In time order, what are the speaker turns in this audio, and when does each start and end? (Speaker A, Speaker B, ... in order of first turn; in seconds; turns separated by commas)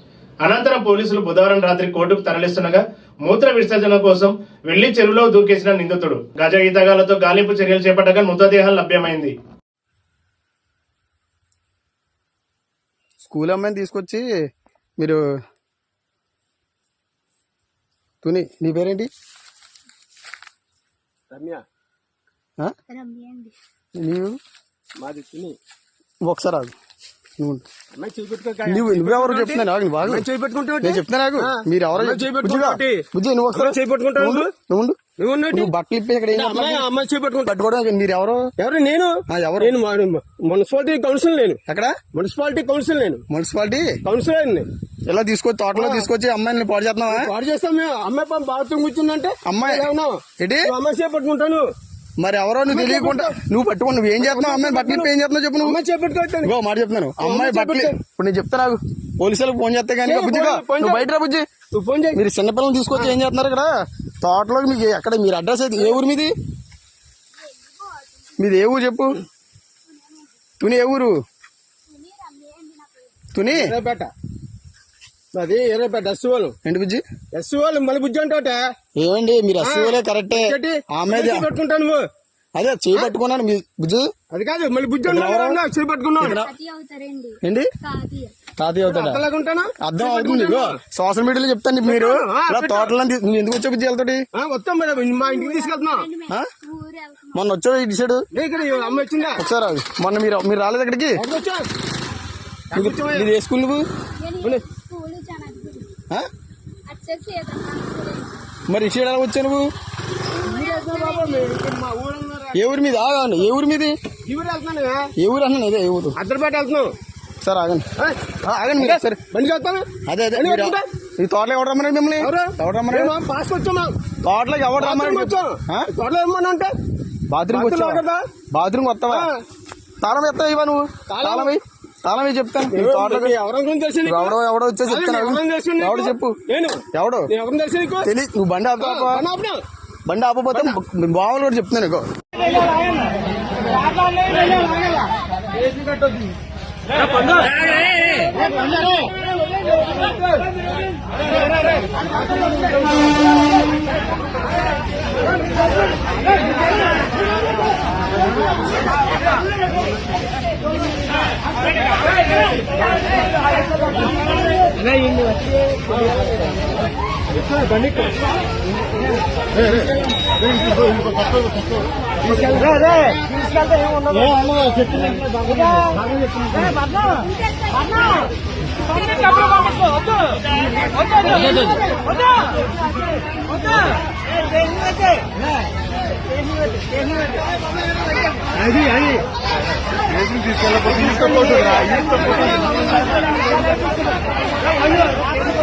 Speaker A: 0.4-9.3, Speaker B: 13.2-14.2, Speaker B: 18.2-19.1, Speaker C: 21.3-21.6, Speaker D: 22.9-23.5, Speaker B: 24.0-24.4, Speaker C: 25.0-25.6, Speaker B: 26.2-26.7, Speaker B: 27.4-27.6, Speaker C: 27.9-34.5, Speaker B: 28.7-30.3, Speaker B: 30.8-35.0, Speaker C: 35.2-35.7, Speaker B: 35.5-36.9, Speaker C: 36.3-37.6, Speaker B: 37.5-38.5, Speaker C: 38.6-41.6, Speaker B: 39.3-39.8, Speaker B: 41.7-42.0, Speaker C: 42.1-43.2, Speaker B: 43.3-43.9, Speaker C: 44.0-44.7, Speaker B: 45.1-47.3, Speaker C: 45.8-46.1, Speaker C: 47.1-51.7, Speaker B: 49.5-49.9, Speaker B: 50.4-50.7, Speaker B: 52.2-55.8, Speaker C: 52.7-53.4, Speaker C: 54.2-56.5, Speaker B: 56.4-61.5, Speaker C: 57.2-58.0, Speaker C: 60.0-61.1, Speaker C: 61.7-62.2, Speaker B: 62.1-66.3, Speaker C: 62.9-63.2, Speaker D: 67.3-68.7, Speaker B: 68.4-69.2, Speaker D: 69.8-70.5, Speaker B: 70.6-71.2, Speaker D: 71.9-73.3, Speaker B: 73.3-73.7, Speaker C: 73.5-74.1, Speaker C: 75.3-76.6, Speaker B: 76.6-77.0, Speaker C: 77.3-78.6, Speaker B: 79.0-81.5, Speaker C: 79.6-82.1, Speaker B: 82.5-84.1, Speaker C: 84.3-86.4, Speaker B: 85.1-85.6, Speaker B: 86.2-86.5, Speaker D: 86.3-88.3, Speaker B: 87.4-87.7, Speaker B: 88.6-89.2, Speaker C: 88.9-90.8, Speaker B: 89.8-94.2, Speaker C: 91.8-93.0, Speaker C: 94.3-96.1, Speaker D: 95.1-97.4, Speaker B: 97.3-98.2, Speaker C: 98.3-99.4, Speaker D: 98.5-99.4, Speaker B: 99.4-101.2, Speaker C: 101.2-101.7, Speaker C: 102.7-103.3, Speaker B: 102.7-103.8, Speaker D: 104.2-105.9, Speaker D: 106.9-108.5, Speaker B: 108.7-109.7, Speaker D: 110.3-111.5, Speaker C: 110.5-112.7, Speaker B: 112.5-114.0, Speaker C: 114.3-115.1, Speaker B: 115.2-116.2, Speaker C: 116.2-116.9, Speaker B: 117.4-117.9, Speaker B: 118.4-119.2, Speaker C: 118.8-120.9, Speaker B: 120.1-123.2, Speaker C: 122.2-124.0, Speaker B: 124.2-125.9, Speaker C: 124.8-126.7, Speaker B: 127.3-129.3, Speaker C: 127.5-128.3, Speaker C: 129.1-129.4, Speaker B: 130.0-133.4, Speaker C: 131.1-131.6, Speaker C: 132.7-138.1, Speaker B: 134.1-136.4, Speaker B: 136.9-137.3, Speaker B: 138.0-139.2, Speaker C: 138.8-139.6, Speaker B: 140.1-142.1, Speaker C: 142.4-143.1, Speaker C: 143.8-145.1, Speaker C: 147.0-147.7, Speaker C: 165.9-166.3, Speaker C: 167.3-168.2, Speaker C: 172.3-173.4, Speaker C: 173.9-175.0, Speaker C: 181.4-181.7, Speaker B: 190.4-192.3